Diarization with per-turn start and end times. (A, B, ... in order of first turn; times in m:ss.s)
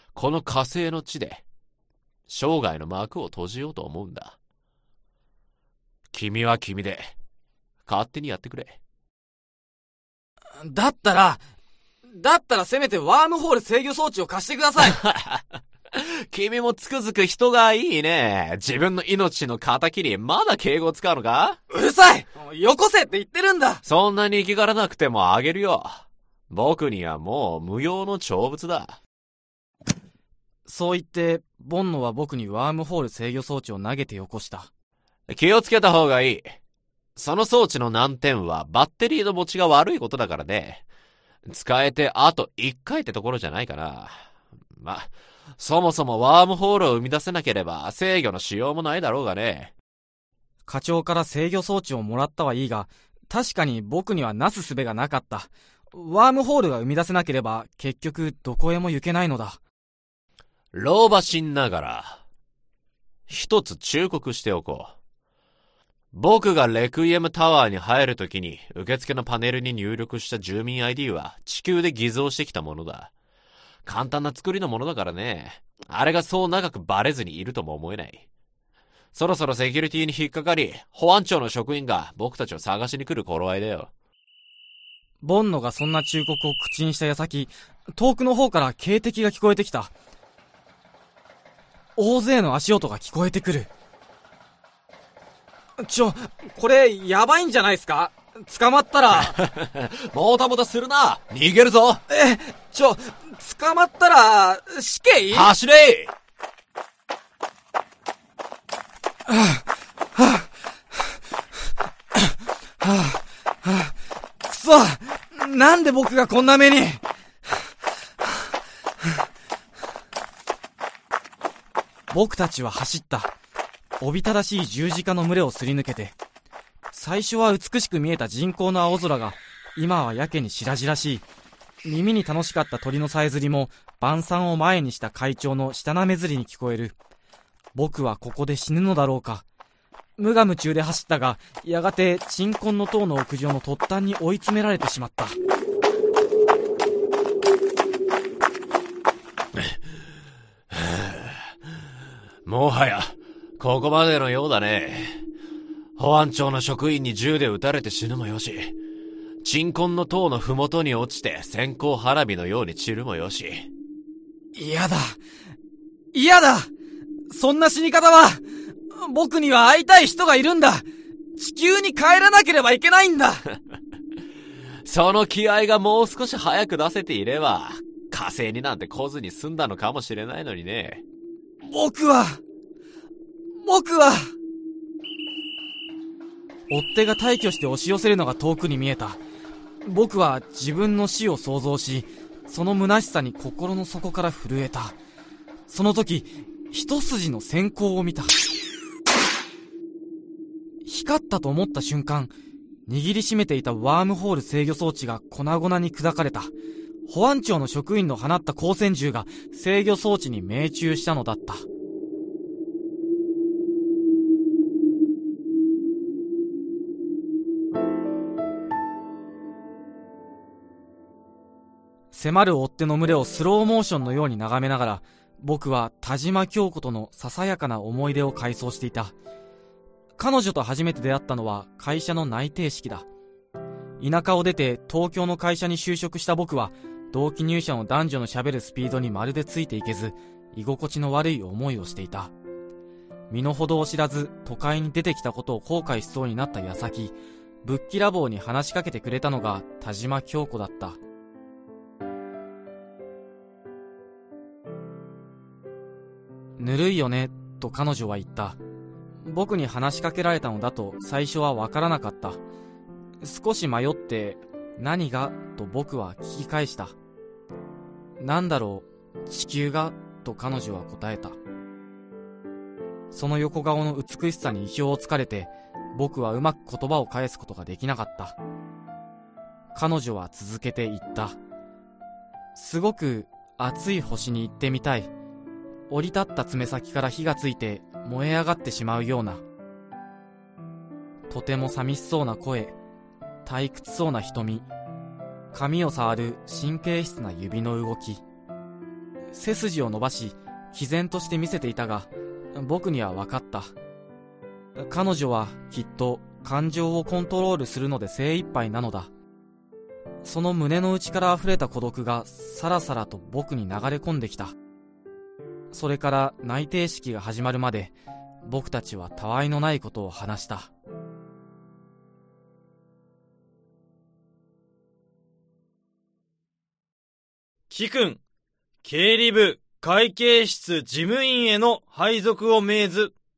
0:00.2-0:01.4 A
0:02.3-0:04.4 A
0:06.1-0:07.2 A
0:07.9-0:08.8 A
0:10.6-0:11.4 B
0:12.1-0:15.0 B
0:14.8-0:21.6 A
0:21.7-0:23.8 B
0:23.8-0:29.0 A
0:30.7-0:34.7 B
0:35.3-0:36.6 A
0:37.2-0:40.8 A
0:41.5-0:49.7 A
0:50.7-0:59.6 B
1:00.7-1:02.2 A
1:03.3-1:05.0 A
1:06.1-1:13.1 A
1:13.8-1:18.2 A
1:19.1-1:23.9 A
1:25.2-1:29.9 B
1:32.0-1:33.7 B
1:35.8-1:39.4 B
1:39.1-1:42.0 A
1:42.1-1:45.5 B
1:45.3-1:46.1 A
1:49.3-1:49.6 B
1:50.2-1:50.5 B
1:52.2-1:57.0 B
2:02.1-2:03.3 B
2:04.0-2:06.2 B
2:06.9-2:11.2 B
2:11.8-2:17.0 B
2:17.8-2:19.4 B
2:20.2-2:25.4 B
2:30.7-2:31.5 A
2:32.4-2:35.2 A
2:36.0-2:38.8 A
2:39.4-2:43.7 A
2:44.6-2:45.2 B
2:46.1-2:46.7 B
2:47.3-2:53.4 B
2:54.8-3:01.0 A
3:01.6-3:02.4 B
3:03.6-3:04.3 B
3:06.7-3:09.2 B
3:09.8-3:15.0 B
3:15.7-3:18.3 B
3:20.8-3:22.3 B
3:22.9-3:26.5 B
3:27.1-3:31.6 B
3:42.1-3:49.1 B
3:50.2-3:53.1 B
3:54.0-4:02.3 B
4:03.3-4:11.0 B
4:16.6-4:18.6 B
4:19.3-4:22.4 B
4:23.2-4:26.9 B
4:28.2-4:31.4 B
4:33.1-4:38.4 B
4:39.7-4:41.4 B
4:42.6-4:45.1 B
4:45.9-4:49.4 B
4:51.3-4:52.8 B
4:53.4-4:54.7 B
4:55.5-4:58.2 B
4:59.3-5:03.7 B
5:04.8-5:09.1 B
5:10.2-5:14.6 B
5:15.7-5:17.9 B
5:18.4-5:20.7 B
5:27.7-5:28.2 C
5:28.8-5:33.2 C